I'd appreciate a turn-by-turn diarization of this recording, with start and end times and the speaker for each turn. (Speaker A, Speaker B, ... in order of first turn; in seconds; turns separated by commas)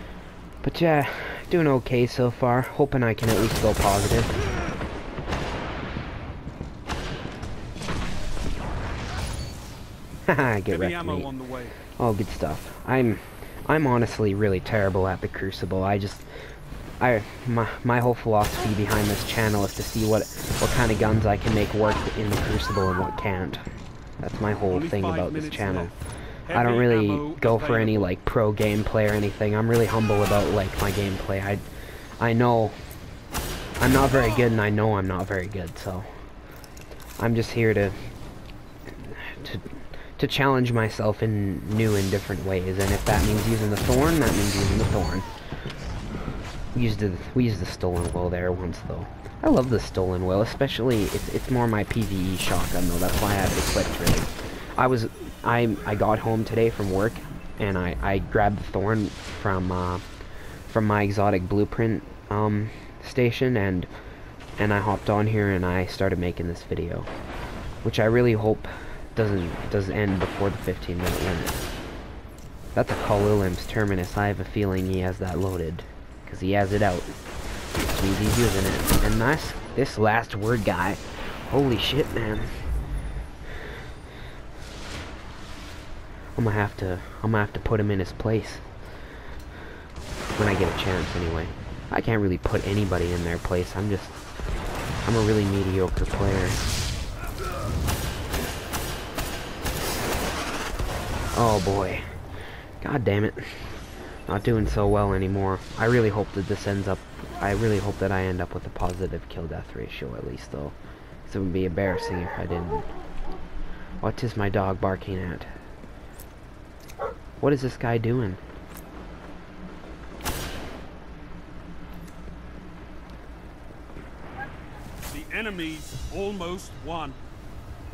Speaker A: 0.6-4.4, Speaker A: 10.2-11.3, Speaker B: 10.7-11.8, Speaker A: 12.0-16.2, Speaker A: 17.0-23.6, Speaker A: 24.2-25.9, Speaker B: 24.7-25.9, Speaker B: 26.4-28.1, Speaker A: 26.5-31.6, Speaker A: 32.2-32.7, Speaker A: 33.8-36.1, Speaker A: 37.2-37.9, Speaker A: 38.9-45.2, Speaker A: 46.7-60.0, Speaker A: 60.7-63.9, Speaker A: 64.6-67.1, Speaker A: 67.8-71.6, Speaker A: 72.7-77.1, Speaker A: 77.8-82.6, Speaker A: 86.3-88.6, Speaker A: 90.3-94.2, Speaker A: 95.0-96.6, Speaker A: 101.3-102.0, Speaker A: 102.8-112.9, Speaker A: 114.0-115.5, Speaker A: 117.4-118.4, Speaker B: 125.1-127.2